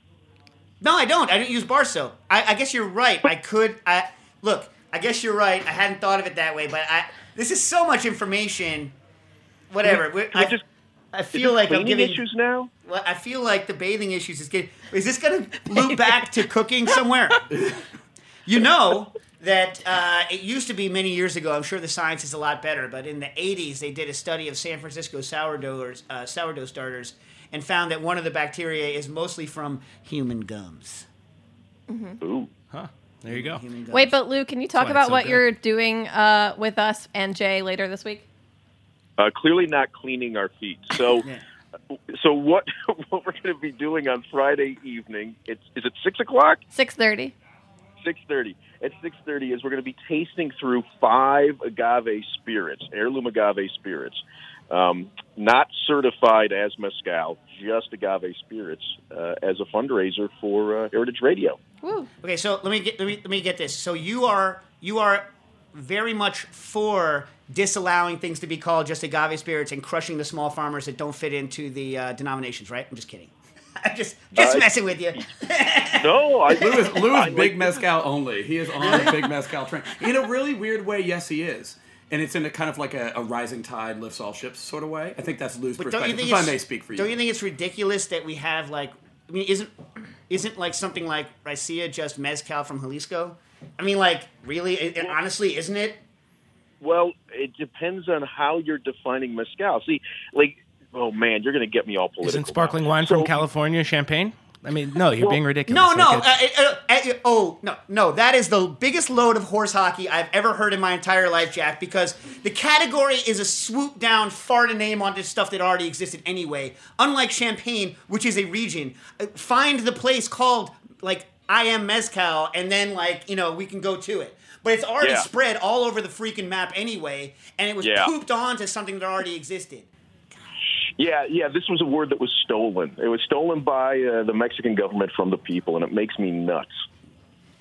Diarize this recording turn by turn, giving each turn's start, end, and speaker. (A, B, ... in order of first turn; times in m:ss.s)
0:00.8-0:08.9 A
0:09.7-0:10.6 A
0:09.8-0:10.6 B
0:11.1-0:12.2 A
0:11.3-0:12.7 B
0:12.8-0:17.5 A
0:18.5-0:31.1 A
0:31.9-0:32.2 C
0:32.2-0:32.5 B
0:32.7-0:33.6 D
0:33.3-0:34.2 A
0:33.9-0:38.2 C
0:34.8-0:35.4 D
0:39.2-0:41.3 B
0:42.1-0:46.6 B
0:46.7-0:47.3 C
0:48.0-1:01.6 B
1:01.8-1:02.1 C
1:02.2-1:16.1 A
1:14.4-1:14.7 B
1:15.9-1:17.8 B
1:16.6-1:27.2 E
1:16.6-1:16.8 A
1:18.8-1:19.3 A
1:25.8-1:29.7 A
1:30.3-1:36.0 A
1:36.8-1:43.4 B
1:42.2-1:46.3 D
1:45.7-2:09.9 A
2:05.0-2:05.3 B
2:07.8-2:08.1 B
2:11.0-2:16.7 B